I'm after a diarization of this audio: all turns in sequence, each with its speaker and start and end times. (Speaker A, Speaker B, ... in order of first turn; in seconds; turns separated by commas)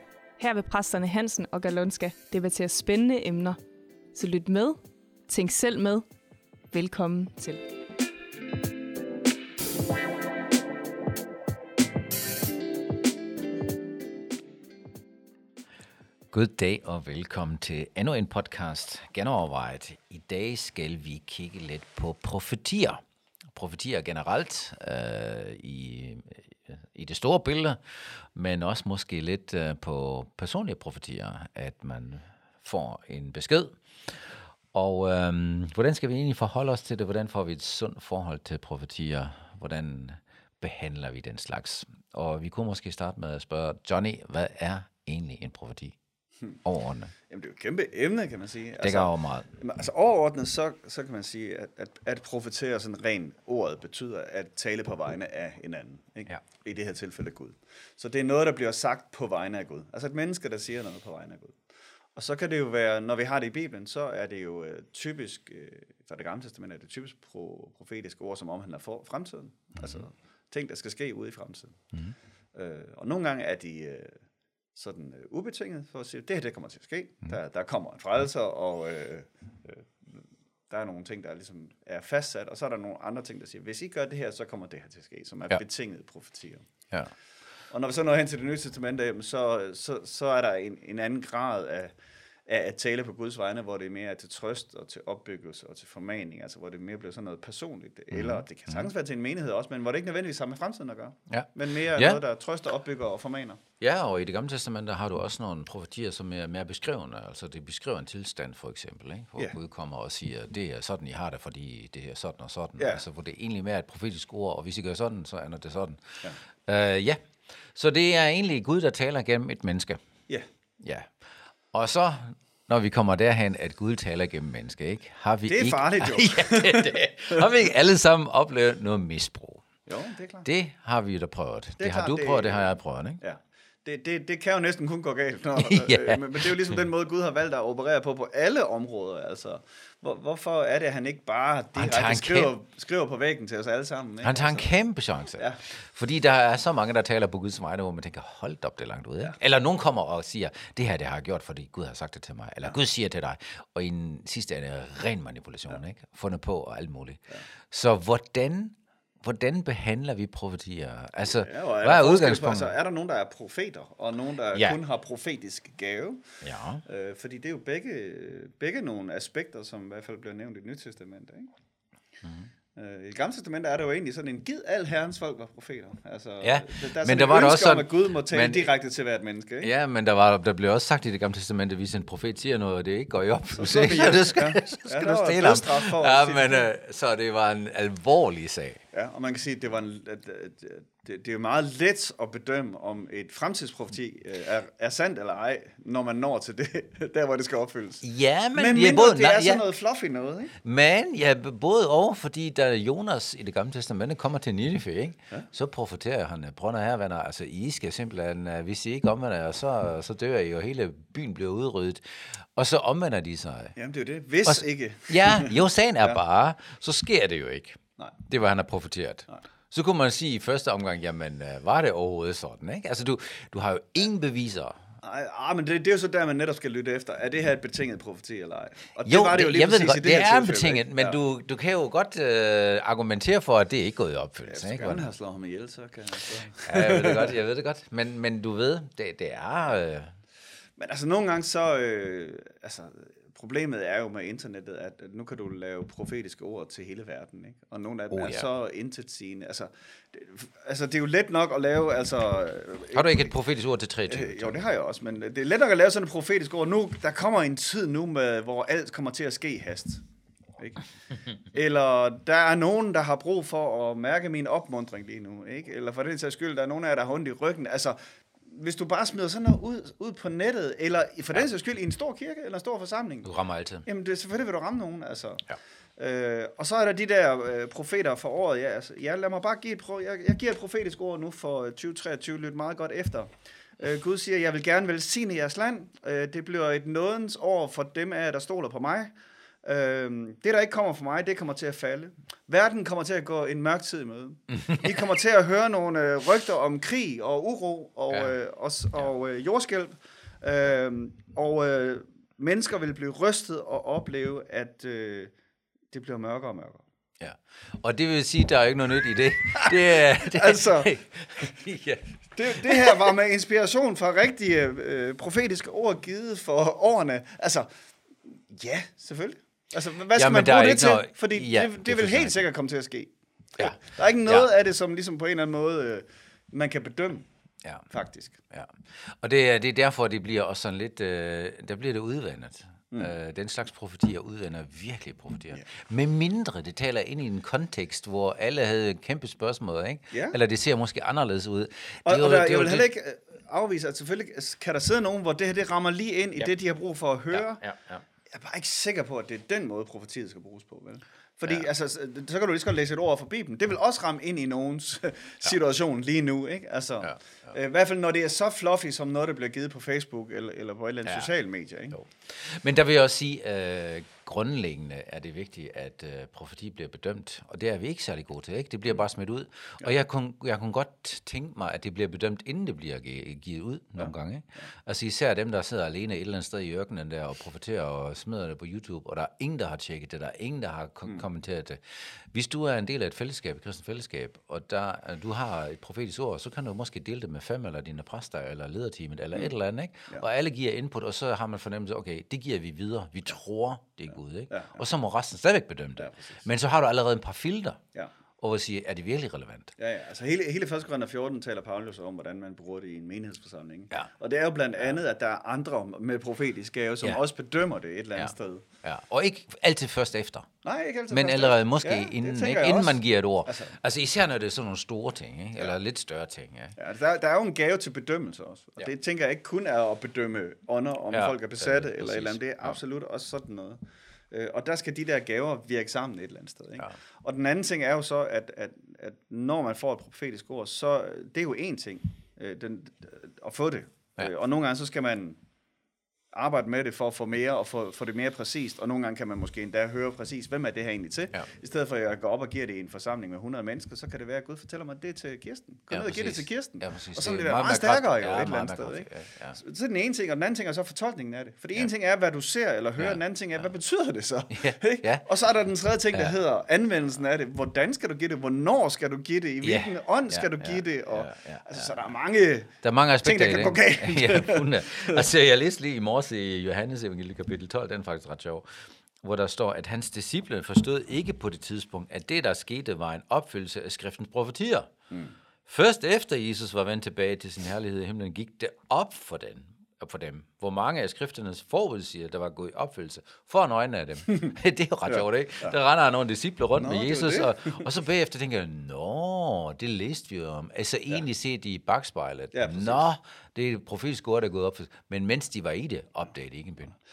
Speaker A: 0.4-3.6, Speaker A: 4.1-6.0, Speaker A: 6.7-7.6, Speaker B: 16.3-23.0, Speaker B: 23.5-34.2, Speaker B: 34.7-46.0, Speaker B: 46.6-47.1, Speaker C: 47.3-61.6, Speaker B: 48.8-49.5, Speaker C: 62.1-71.9, Speaker C: 72.5-86.7, Speaker C: 87.7-91.9, Speaker C: 92.5-103.6, Speaker B: 98.1-98.9, Speaker B: 101.3-102.2, Speaker B: 103.8-117.2, Speaker C: 112.8-113.0, Speaker B: 117.7-120.0, Speaker B: 120.8-121.1, Speaker B: 121.7-129.7, Speaker C: 125.5-127.5, Speaker C: 129.9-130.5, Speaker B: 130.4-133.2, Speaker C: 131.8-144.7, Speaker B: 135.6-136.8, Speaker B: 141.8-142.6, Speaker B: 144.2-162.8, Speaker C: 145.4-145.6, Speaker C: 161.2-171.5, Speaker B: 164.5-164.8, Speaker B: 166.4-166.8, Speaker B: 172.2-172.5, Speaker C: 172.8-179.7, Speaker B: 176.4-178.7, Speaker B: 179.6-188.8, Speaker C: 183.6-186.7, Speaker C: 188.9-200.6, Speaker B: 198.0-199.6, Speaker B: 200.6-213.8, Speaker C: 213.8-216.2, Speaker B: 214.4-224.8, Speaker C: 225.0-231.2, Speaker B: 229.0-235.1, Speaker C: 234.5-237.3, Speaker B: 236.6-240.2, Speaker C: 240.8-253.3, Speaker B: 248.1-248.5, Speaker B: 252.9-254.6, Speaker C: 254.1-260.0, Speaker C: 260.6-260.9, Speaker C: 261.5-273.3, Speaker B: 273.2-273.9, Speaker C: 273.9-305.3, Speaker B: 298.1-298.4, Speaker C: 305.9-306.8, Speaker B: 307.2-313.1, Speaker C: 310.2-310.9, Speaker C: 312.4-317.7, Speaker C: 318.2-327.3, Speaker B: 320.1-322.4, Speaker B: 323.6-324.5, Speaker C: 327.9-328.4, Speaker B: 328.5-342.9, Speaker C: 340.1-340.4, Speaker C: 342.1-347.6, Speaker B: 347.3-348.0, Speaker C: 348.3-362.0, Speaker B: 361.9-397.8, Speaker C: 374.0-374.7, Speaker C: 394.5-394.8, Speaker C: 396.0-396.4, Speaker B: 398.4-399.7, Speaker C: 399.8-408.6, Speaker B: 408.8-410.5, Speaker C: 410.6-413.8, Speaker B: 411.1-416.8, Speaker C: 416.8-423.8, Speaker B: 421.1-422.8, Speaker C: 424.3-435.4, Speaker C: 436.3-465.2, Speaker B: 445.9-449.6, Speaker B: 453.0-453.7, Speaker B: 454.5-455.3, Speaker B: 459.6-461.9, Speaker B: 462.8-474.9, Speaker B: 475.7-496.9, Speaker C: 485.1-485.7, Speaker C: 486.8-487.9, Speaker C: 492.5-493.1